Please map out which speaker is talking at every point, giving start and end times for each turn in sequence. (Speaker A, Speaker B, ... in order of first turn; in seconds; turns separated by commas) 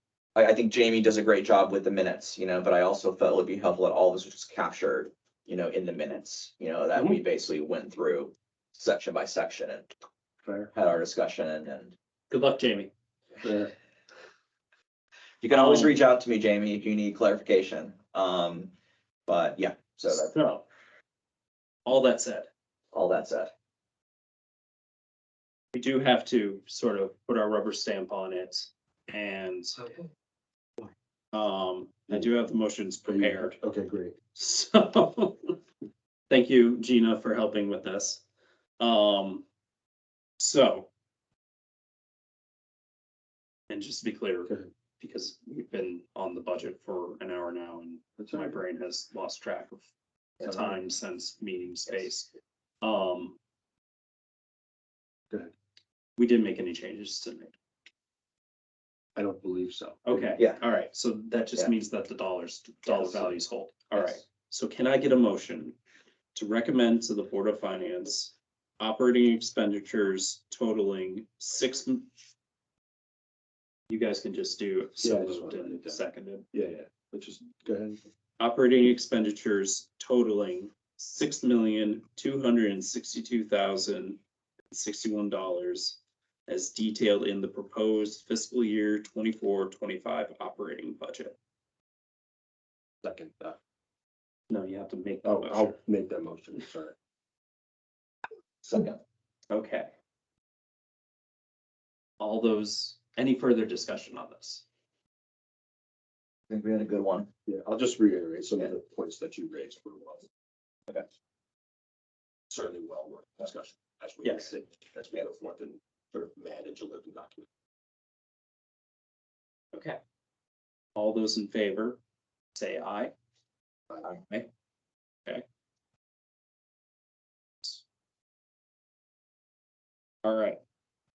Speaker A: 0.4-9.9, Speaker B: 7.0-7.2, Speaker B: 10.4-10.7, Speaker A: 10.7-11.9, Speaker C: 12.3-12.9, Speaker B: 13.4-13.7, Speaker A: 15.4-18.7, Speaker C: 15.5-16.0, Speaker A: 19.3-20.3, Speaker C: 20.1-20.6, Speaker C: 21.9-22.5, Speaker A: 22.9-23.5, Speaker C: 25.7-29.8, Speaker C: 31.3-33.6, Speaker B: 33.1-34.2, Speaker C: 34.3-35.6, Speaker C: 36.3-38.2, Speaker C: 38.8-39.4, Speaker C: 40.4-40.9, Speaker C: 43.7-49.9, Speaker B: 48.2-48.6, Speaker C: 50.4-52.3, Speaker B: 50.4-50.8, Speaker C: 52.8-53.4, Speaker C: 56.2-57.5, Speaker B: 59.1-60.4, Speaker C: 60.0-65.8, Speaker A: 62.9-63.3, Speaker B: 63.0-63.3, Speaker C: 66.3-72.1, Speaker C: 73.9-76.5, Speaker B: 75.0-78.0, Speaker C: 78.4-91.4, Speaker B: 93.0-93.6, Speaker C: 94.5-95.8, Speaker B: 95.2-97.0, Speaker A: 98.6-99.0, Speaker C: 99.5-99.9, Speaker C: 102.2-104.6, Speaker A: 106.5-107.3, Speaker B: 107.5-110.3, Speaker B: 112.5-117.5, Speaker C: 114.2-114.5, Speaker C: 119.7-120.0, Speaker C: 121.0-122.0, Speaker C: 122.5-123.1, Speaker C: 130.2-130.6